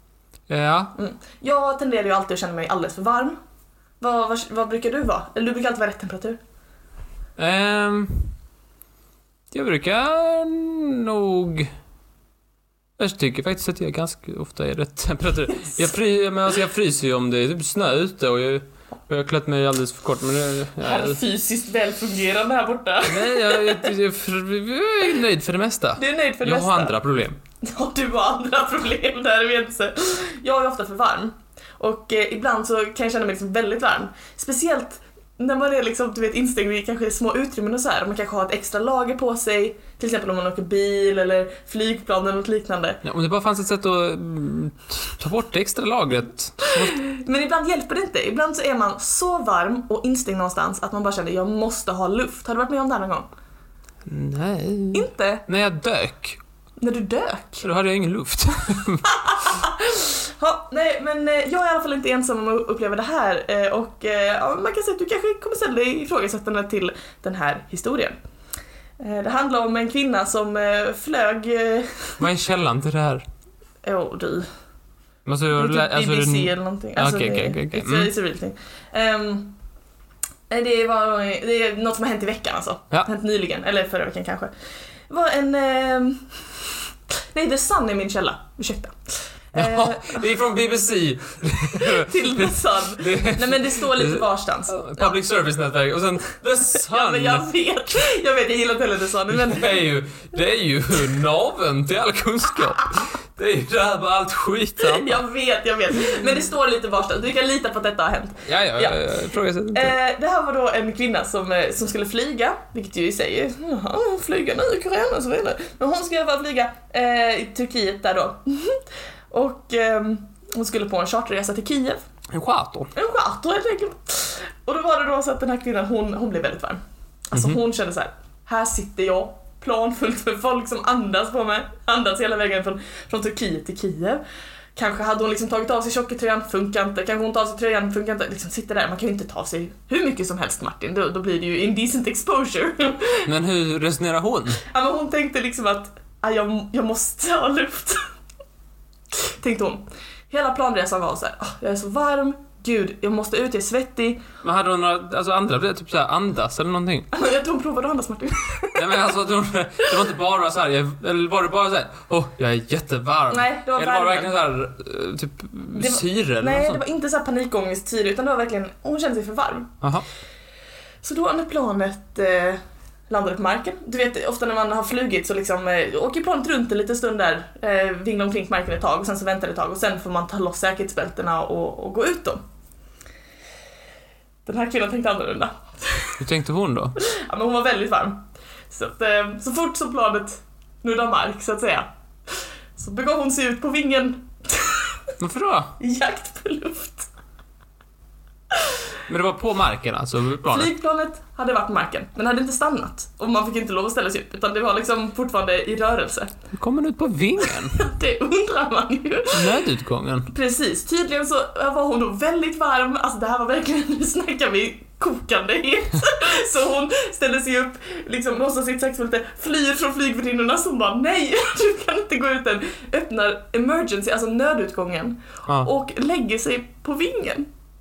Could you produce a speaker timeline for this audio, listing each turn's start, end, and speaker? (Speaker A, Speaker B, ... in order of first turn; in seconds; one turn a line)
Speaker A: 0.5-0.9
Speaker B: 0.9-3.4
Speaker B: 4.0-6.4
Speaker A: 7.4-8.3
Speaker A: 9.5-11.7
Speaker A: 13.0-21.2
Speaker B: 20.8-23.9
Speaker A: 23.1-27.4
Speaker B: 26.0-27.0
Speaker B: 27.6-43.0
Speaker A: 43.0-47.0
Speaker B: 46.6-53.3
Speaker A: 54.0-56.4
Speaker B: 54.9-55.4
Speaker B: 56.8-57.6
Speaker A: 57.6-59.1
Speaker B: 59.1-68.2
Speaker B: 69.0-72.2
Speaker A: 72.2-73.2
Speaker B: 73.8-74.5
Speaker A: 75.2-78.1
Speaker B: 75.5-79.6
Speaker B: 80.5-84.5
Speaker B: 85.1-90.2
Speaker A: 89.5-97.5
Speaker B: 91.8-95.2
Speaker B: 96.9-99.7
Speaker A: 99.3-105.2
Speaker B: 104.8-109.0
Speaker A: 108.5-110.0
Speaker B: 109.7-122.0
Speaker A: 122.3-122.9
Speaker B: 122.9-134.2
Speaker A: 127.3-127.6
Speaker B: 134.8-143.2
Speaker A: 143.2-144.6
Speaker B: 144.6-148.0
Speaker B: 149.1-154.2
Speaker A: 154.4-157.1
Speaker B: 157.1-158.8
Speaker A: 158.7-166.8
Speaker B: 163.3-164.3
Speaker B: 165.7-169.7
Speaker B: 171.0-182.4
Speaker B: 184.4-186.2
Speaker A: 186.2-187.0
Speaker B: 187.0-195.1
Speaker A: 195.2-195.7
Speaker B: 195.8-197.1
Speaker B: 198.5-198.8
Speaker A: 199.1-200.7
Speaker B: 200.5-206.3
Speaker A: 206.5-207.8
Speaker B: 207.4-209.6
Speaker A: 209.3-210.3
Speaker B: 210.3-227.5